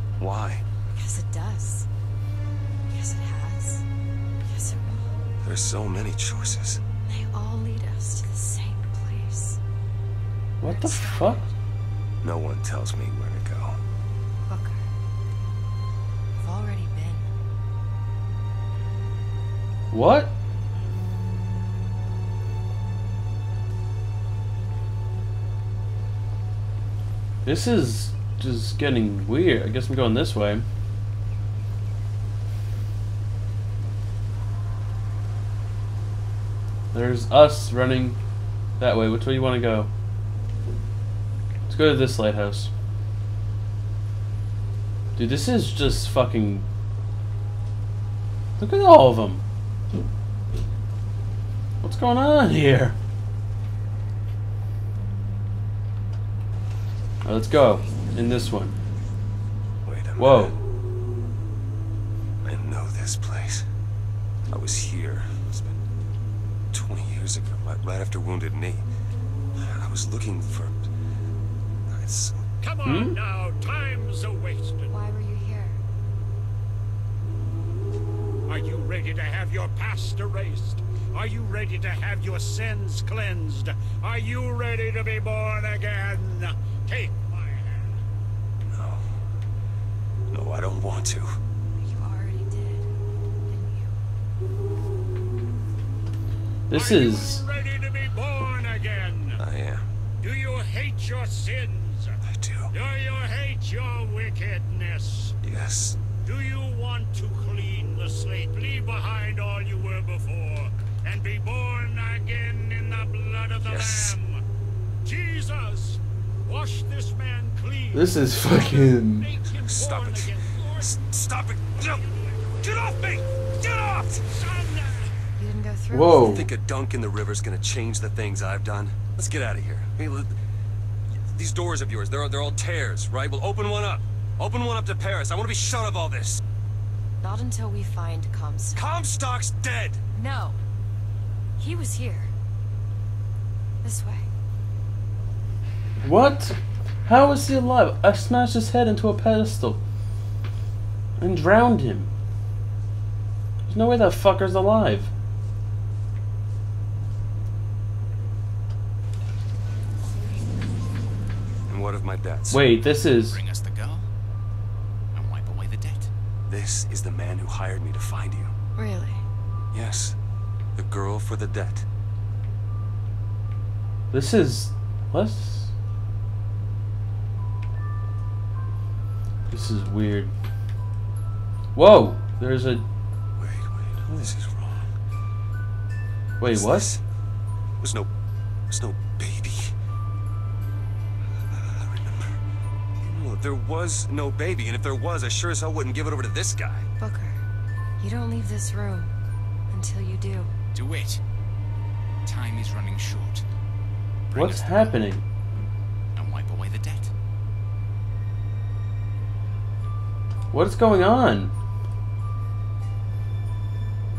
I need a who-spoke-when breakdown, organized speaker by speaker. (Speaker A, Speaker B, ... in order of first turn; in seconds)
Speaker A: 0.2-0.7, 5.4-6.8, 12.2-13.8, 59.9-60.6, 62.4-63.6, 64.5-65.8, 66.7-68.9, 69.6-70.9, 71.9-72.4, 88.7-89.1, 90.3-91.4, 99.4-99.9, 102.3-102.7, 105.4-106.0, 113.6-114.2, 119.5-122.0, 122.6-124.2, 126.3-130.3, 131.3-136.4, 138.7-140.0, 161.7-162.7, 166.5-168.5, 169.7-170.2, 170.8-171.9, 183.4-184.9, 186.5-187.0, 187.8-188.1, 188.7-189.7, 191.5-192.4, 193.0-196.9
Speaker B: 0.9-1.9, 2.9-3.8, 4.5-5.2, 7.1-9.6, 10.6-11.6, 14.5-14.8, 16.3-17.3, 74.9-75.8, 91.8-92.9, 93.5-94.0, 125.4-126.5, 137.2-138.8, 140.2-140.6, 141.6-142.3, 143.8-144.3, 168.8-169.2, 197.0-197.4, 198.0-199.1, 199.7-200.5
Speaker C: 10.6-11.5, 19.9-20.3, 27.4-30.7, 36.9-38.2, 38.8-39.9, 41.7-42.7, 45.2-46.7, 48.6-49.4, 51.8-53.0, 57.2-58.8, 60.2-60.6, 72.8-73.2, 96.7-97.4, 117.9-119.3, 125.9-126.5, 146.0-149.8, 151.2-152.1, 153.7-155.1, 162.5-163.4, 174.1-175.7, 179.5-180.3, 181.8-182.8, 186.4-186.9, 204.3-205.2, 210.5-211.5
Speaker D: 72.6-74.9, 78.5-88.0, 96.8-99.4, 100.2-102.1, 102.7-105.3, 106.3-114.1, 115.1-117.9, 119.3-120.7
Speaker E: 163.3-164.0, 165.1-166.1, 200.7-201.2, 202.3-203.4, 204.3-205.0, 206.2-207.1